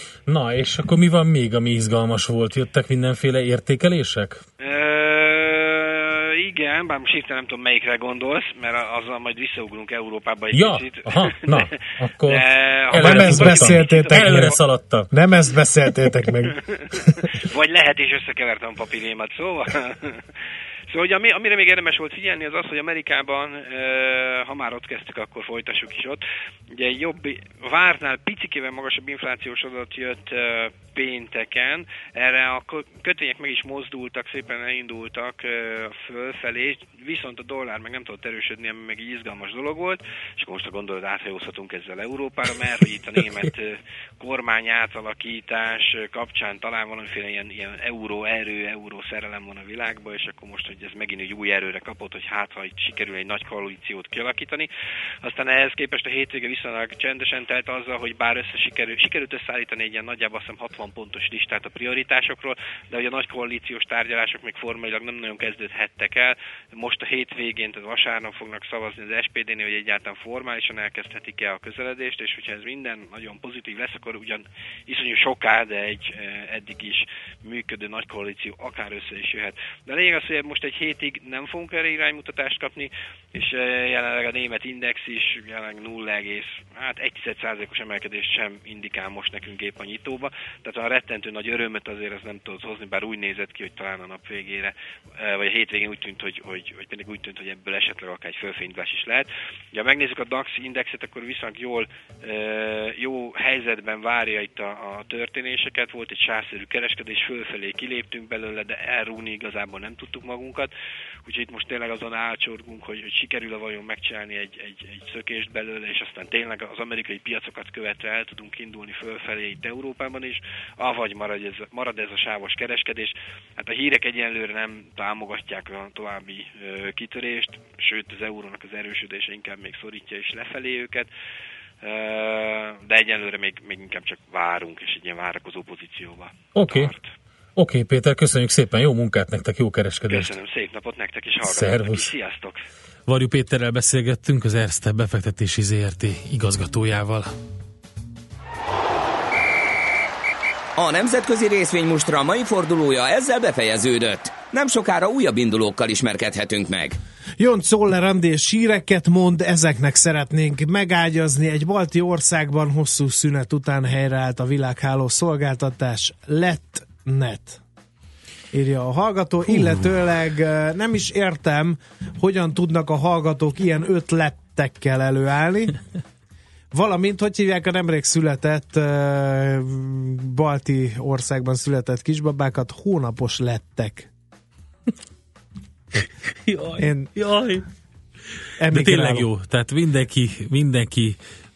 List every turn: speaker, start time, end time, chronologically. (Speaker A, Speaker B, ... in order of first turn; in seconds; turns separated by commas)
Speaker A: 0.3-4.4, Speaker B: 4.6-14.6, Speaker A: 10.5-15.1, Speaker C: 12.9-14.6, Speaker C: 15.1-17.2, Speaker B: 16.7-20.3, Speaker B: 20.9-54.7, Speaker B: 55.2-110.7, Speaker B: 111.2-131.1, Speaker B: 131.8-137.1, Speaker A: 136.5-136.9, Speaker A: 137.6-140.4, Speaker B: 140.1-142.7, Speaker A: 141.4-142.1, Speaker A: 143.1-147.3, Speaker D: 150.8-157.0, Speaker C: 157.4-167.6, Speaker C: 168.5-175.8, Speaker C: 176.7-184.1, Speaker A: 185.9-187.7, Speaker C: 186.8-187.1, Speaker C: 188.6-189.3, Speaker A: 188.7-191.2